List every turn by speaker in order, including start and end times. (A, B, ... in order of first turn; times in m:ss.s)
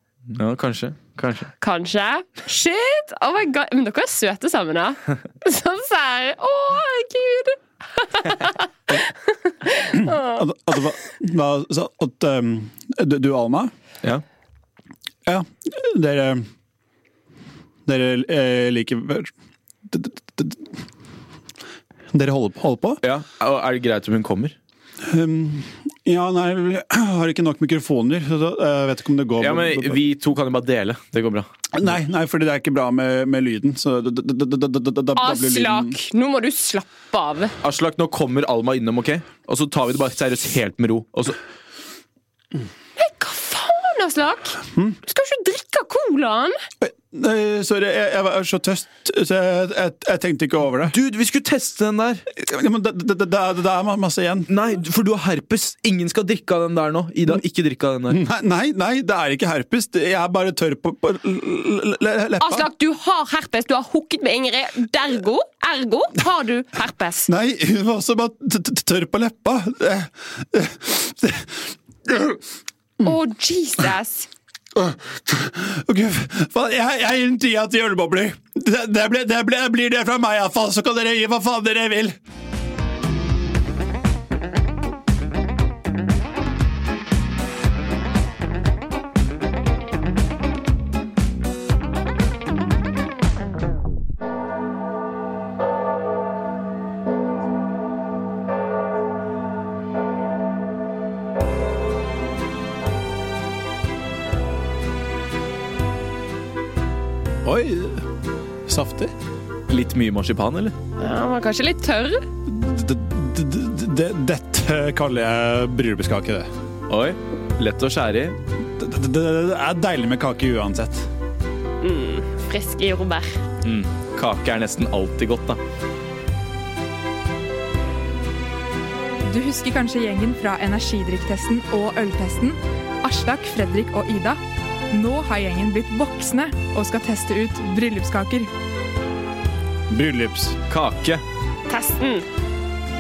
0:00.3-0:01.5 A
0:01.6-0:10.4 B
0:09.9-0:13.7 C
0:15.3-0:16.4 C
0:17.9-0:19.3 C
0:19.9-0:20.7 C
0:22.1-0:23.0 C
0:23.0-0:24.6 A
0:25.0-0:30.0 C
0:29.4-0:31.5 A
0:31.7-0:36.0 C
0:35.2-0:37.6 B
0:37.6-0:41.4 A
0:43.0-0:46.6 B
0:46.8-0:51.0 C
0:50.8-0:52.2 A
0:52.3-0:54.5 C
0:54.5-0:58.2 A
0:58.1-1:02.7 C
1:02.4-1:07.3 B
1:07.3-1:12.4 C
1:13.0-1:14.3 B
1:14.8-1:22.2 C
1:47.4-1:48.0 C
1:48.7-1:49.1 C
1:49.7-1:50.8 A
1:51.0-1:52.2 B
1:52.5-1:56.5 C
1:56.9-1:58.4 A
1:58.8-2:01.1 C
2:01.8-2:03.3 B
2:03.6-2:05.6 A
2:09.3-2:14.4 D
2:14.9-2:18.5 D
2:19.9-2:20.6 C
2:20.7-2:21.2 A
2:21.7-2:22.2 B